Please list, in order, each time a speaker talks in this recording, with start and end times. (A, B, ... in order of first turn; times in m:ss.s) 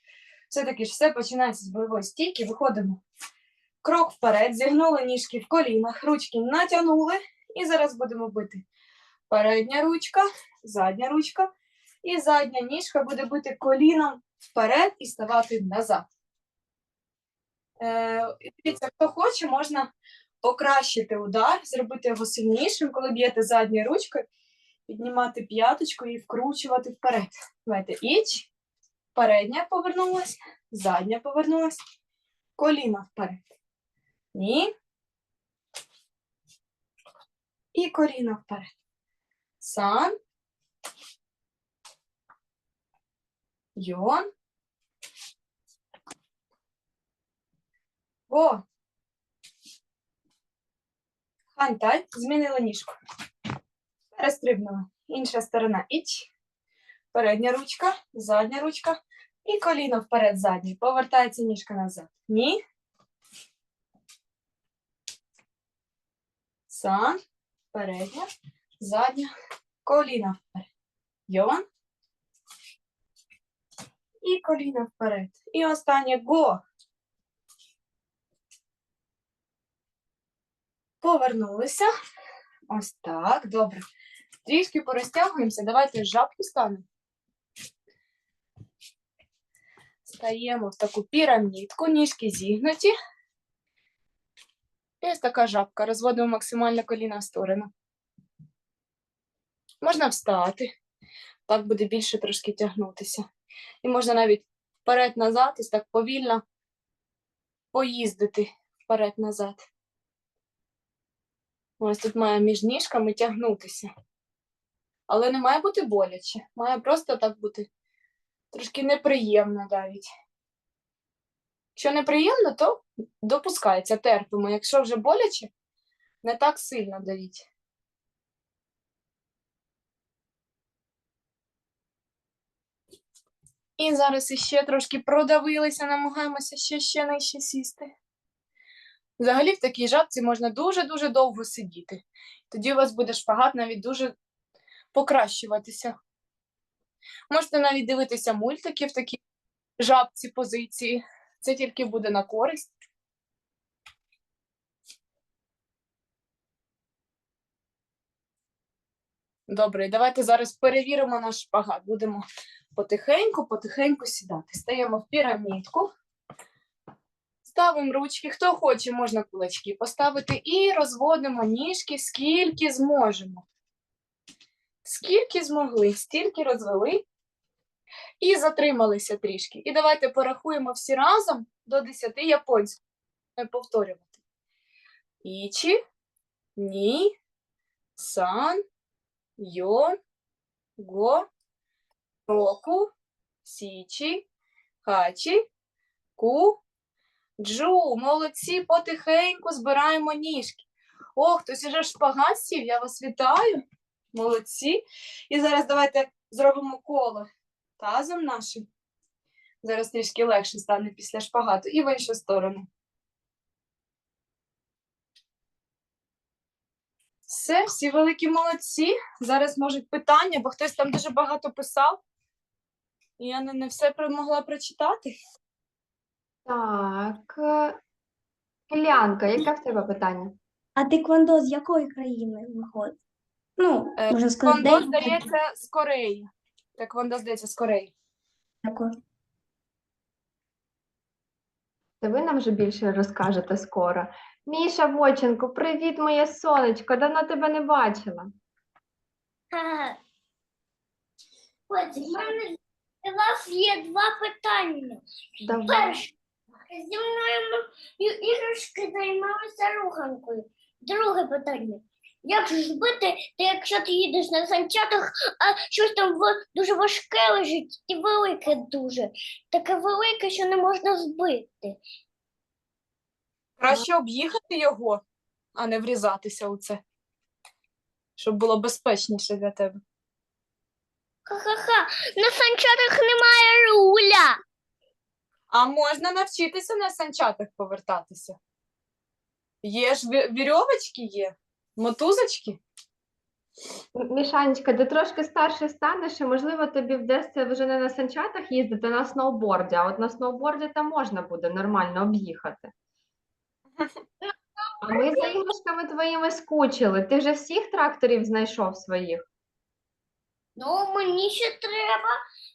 0:00.5-0:03.0 A
0:03.8-0:08.6 A
0:09.3-0:11.5 A
0:12.0-0:16.0 A
0:17.8-0:19.9 A
0:20.4-0:24.2 A
0:24.9-0:28.5 A
0:29.1-0:31.8 A
0:32.6-0:33.4 A
0:34.3-0:34.7 A
0:37.7-0:38.7 A
0:39.6-0:40.1 A
0:43.8-0:44.2 A
0:48.3-0:48.6 A
0:51.5-0:53.0 A
0:54.2-0:56.3 A
0:57.1-1:02.6 A
1:06.7-1:07.2 A
1:07.7-1:08.3 A
1:08.8-1:09.3 A
1:09.8-1:10.7 A
1:11.3-1:11.6 A
1:14.2-1:16.6 A
1:21.0-1:21.9 A
1:22.7-1:23.8 A
1:24.4-1:26.8 A
1:30.0-1:32.9 A
1:35.0-1:37.7 A
1:39.8-1:40.7 A
1:41.5-1:43.2 A
1:43.8-1:46.4 A
1:47.7-1:49.6 A
1:51.8-1:53.9 A
1:55.1-1:57.7 A
1:58.5-2:00.1 A
2:01.8-2:05.5 A
2:06.2-2:07.5 A
2:13.8-2:17.9 A
2:19.2-2:24.1 A
2:24.9-2:26.0 A
2:27.3-2:29.2 A
2:29.8-2:32.7 A
2:39.5-2:45.9 A
2:47.4-2:53.4 A
2:54.8-2:57.0 A
2:58.2-3:02.8 A
3:03.4-3:04.2 A
3:05.2-3:05.8 A
3:06.6-3:07.1 A
3:08.0-3:08.6 A
3:09.4-3:10.0 A
3:10.8-3:11.2 A
3:12.3-3:12.9 A
3:13.4-3:14.2 A
3:14.8-3:15.4 A
3:16.2-3:16.6 A
3:17.4-3:20.6 A
3:21.2-3:23.6 A
3:24.1-3:27.3 A
3:27.8-3:28.7 A
3:29.6-3:32.7 A
3:37.3-3:42.0 A
3:43.2-3:45.2 A
3:46.4-3:47.8 B
3:48.7-3:50.4 B
3:50.8-3:53.0 C
3:53.6-3:55.2 C
3:54.0-3:57.9 A
3:58.6-3:58.9 C
4:02.0-4:08.3 B
4:09.5-4:10.0 D
4:11.7-4:15.0 D
4:15.4-4:16.0 B
4:15.6-4:16.1 D
4:16.7-4:31.8 D
4:33.6-4:35.0 A
4:35.5-4:36.8 A
4:38.2-4:39.8 A
4:41.3-4:44.4 D
4:45.5-4:48.4 A
4:49.6-4:52.6 A
4:54.0-5:02.7 B
5:04.8-5:09.2 B
5:04.9-5:05.4 D
5:10.6-5:12.2 D